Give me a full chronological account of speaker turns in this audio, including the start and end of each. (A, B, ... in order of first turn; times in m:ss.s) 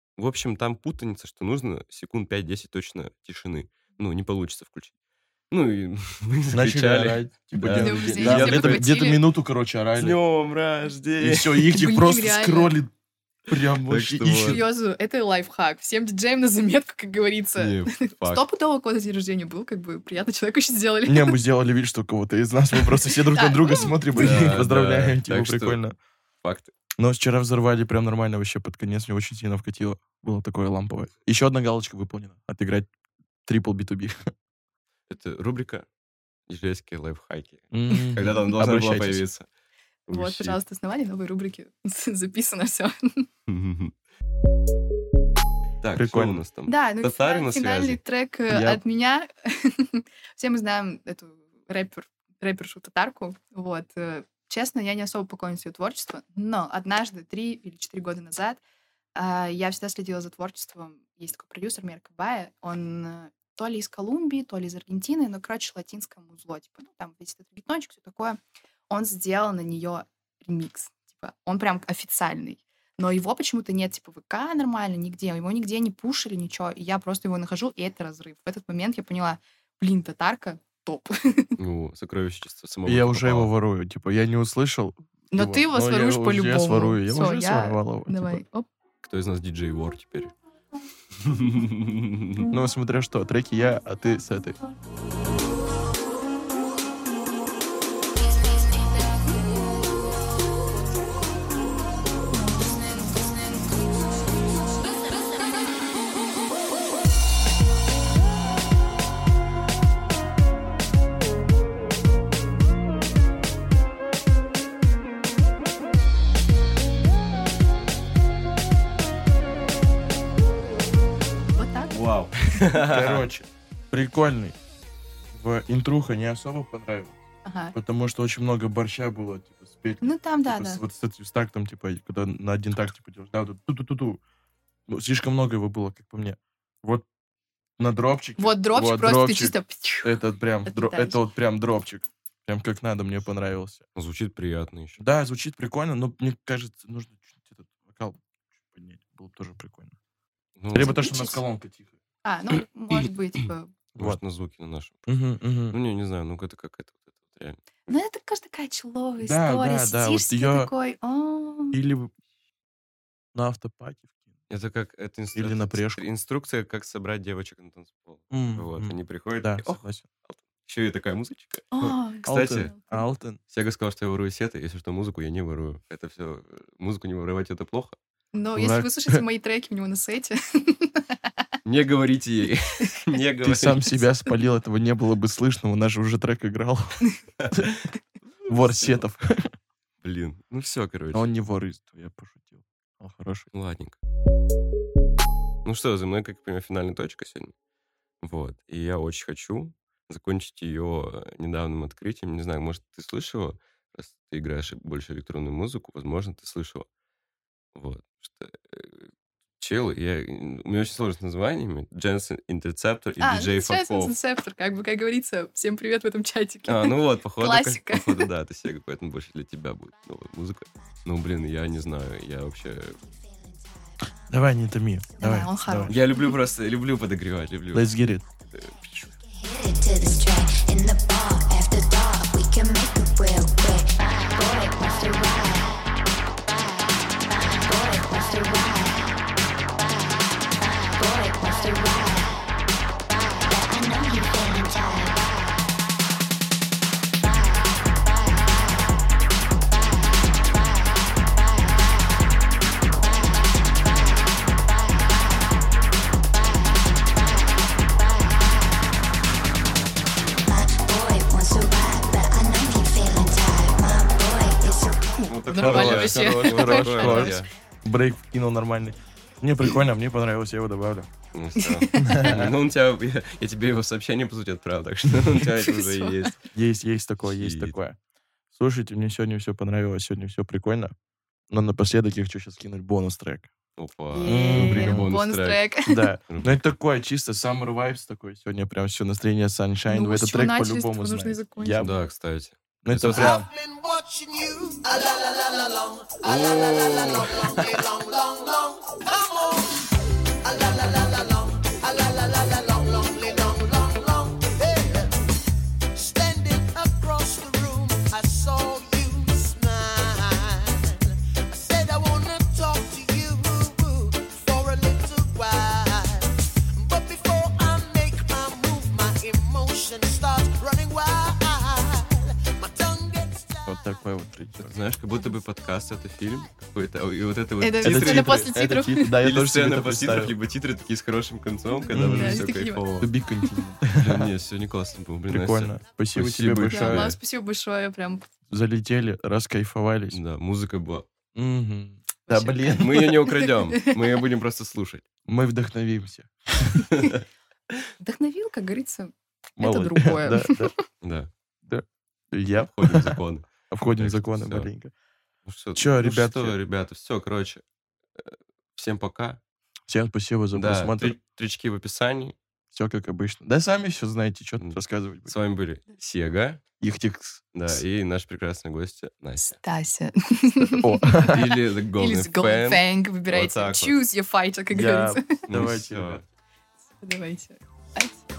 0:00.2-0:04.9 A
0:05.5-0:08.9 A
0:06.5-0:10.2 B
0:07.8-0:09.2 C
0:10.0-0:11.7 A
0:11.2-0:12.9 B
0:11.7-0:12.8 C
0:13.5-0:14.6 B
0:13.8-0:14.6 A
0:14.4-0:21.4 C
0:17.6-0:18.4 A
0:21.0-0:26.0 B
0:23.3-0:24.4 C
0:24.1-0:25.8 A
0:26.4-0:26.7 A
0:27.0-0:32.9 B
0:33.4-0:34.2 B
0:35.1-0:35.8 A
0:36.5-0:39.5 A
0:37.7-0:39.2 B
0:40.1-0:40.6 A
0:40.1-0:43.3 C
0:43.5-0:43.9 A
0:45.8-0:48.0 A
0:45.9-0:46.4 B
0:46.7-0:58.6 C
0:48.5-0:48.8 B
0:59.2-1:21.6 C
1:21.6-1:23.5 A
1:22.8-1:28.4 B
1:25.3-1:28.7 C
1:29.0-1:30.3 A
1:31.2-1:32.5 A
1:32.5-1:34.6 B
2:01.6-2:02.0 C
2:01.9-2:03.3 A
2:02.8-2:04.6 B
2:05.3-2:07.2 B
2:07.4-2:07.8 C
2:07.7-2:14.2 B
2:10.0-2:10.8 C
2:14.9-2:17.0 B
2:17.8-2:23.8 B
2:18.4-2:21.2 C
2:24.0-2:25.0 A
2:25.0-2:30.0 B
2:30.6-2:31.2 A
2:30.7-2:31.9 B
2:30.8-2:31.4 C
2:32.2-2:33.7 C
2:33.9-2:35.1 A
2:35.1-2:35.8 B
2:35.7-2:37.8 A
2:37.9-2:41.8 C
2:39.2-2:40.7 B
2:41.7-2:42.1 B
2:43.3-2:44.3 B
2:44.5-2:51.7 A
2:45.3-2:46.0 B
2:48.3-2:50.1 B
2:51.7-2:53.0 C
2:51.8-2:53.4 B
2:52.3-2:52.7 A
2:53.5-2:58.0 A
2:58.3-3:01.2 C
2:58.6-2:59.2 B
3:01.6-3:04.0 A
3:03.4-3:07.7 B
3:07.4-3:07.8 A
3:08.4-3:09.5 B
3:08.5-3:09.0 A
3:10.0-3:11.3 A
3:11.1-3:13.5 B
3:13.5-3:14.0 A
3:15.6-3:17.5 A
3:18.2-3:26.9 A
3:27.7-3:29.1 A
3:29.6-3:34.1 A
3:33.2-3:38.2 C
3:36.7-3:43.0 A
3:43.0-3:44.1 D
3:44.3-3:45.9 B
3:45.2-3:46.1 C
3:45.9-3:47.9 A
3:47.7-3:48.2 B
3:48.5-3:48.8 A
3:48.5-3:55.9 D
3:57.2-3:59.2 D
4:00.6-4:02.4 D
4:03.4-4:05.7 D
4:07.8-4:08.8 D
4:11.2-4:11.9 D
4:13.0-4:15.5 D
4:16.4-4:18.7 D
4:20.4-4:25.3 D
4:25.2-4:27.5 A
4:25.4-4:27.4 C
4:25.5-4:31.1 B
4:31.3-4:36.5 A
4:31.6-4:32.3 C
4:32.0-4:32.6 B
4:35.7-4:36.3 C
4:36.5-4:38.0 B
4:37.2-4:37.7 A
4:38.5-4:40.9 B
4:41.5-4:43.5 B
4:43.8-4:45.6 A
4:44.1-4:46.1 C
4:44.2-4:45.1 B
4:45.8-4:52.0 B
4:46.3-4:46.6 A
4:49.9-4:51.9 C
4:51.8-4:53.4 A
4:52.8-4:53.5 B
4:53.2-4:59.8 E
4:56.2-4:57.7 A
5:00.4-5:05.1 E
5:05.9-5:23.7 E
5:23.6-5:24.7 B
5:24.6-5:28.5 A
5:27.6-5:29.1 C
5:27.8-5:30.3 B
5:29.2-5:33.1 A
5:31.7-5:32.8 C
5:31.9-5:34.3 B
5:34.0-5:37.2 A
5:35.3-5:37.1 B
5:36.7-5:38.3 C
5:38.5-5:40.2 B
5:40.1-5:41.0 A
5:41.3-5:43.2 B
5:42.3-5:43.5 C
5:42.8-5:45.0 A
5:45.3-5:46.9 B
5:48.0-5:50.8 C
5:49.6-5:50.7 B
5:51.0-5:51.3 A
5:51.6-5:54.9 B
5:52.7-5:54.7 A
5:55.4-5:57.6 A
5:55.8-5:56.6 B
5:58.2-5:59.4 A
5:59.9-6:01.2 B
6:00.5-6:02.4 A
6:02.7-6:05.3 B
6:04.6-6:06.6 A
6:06.8-6:07.8 B
6:07.5-6:09.6 A
6:09.4-6:15.2 C
6:10.8-6:11.5 B
6:11.2-6:14.0 A
6:14.7-6:16.2 B
6:15.5-6:16.2 A
6:17.0-6:18.2 C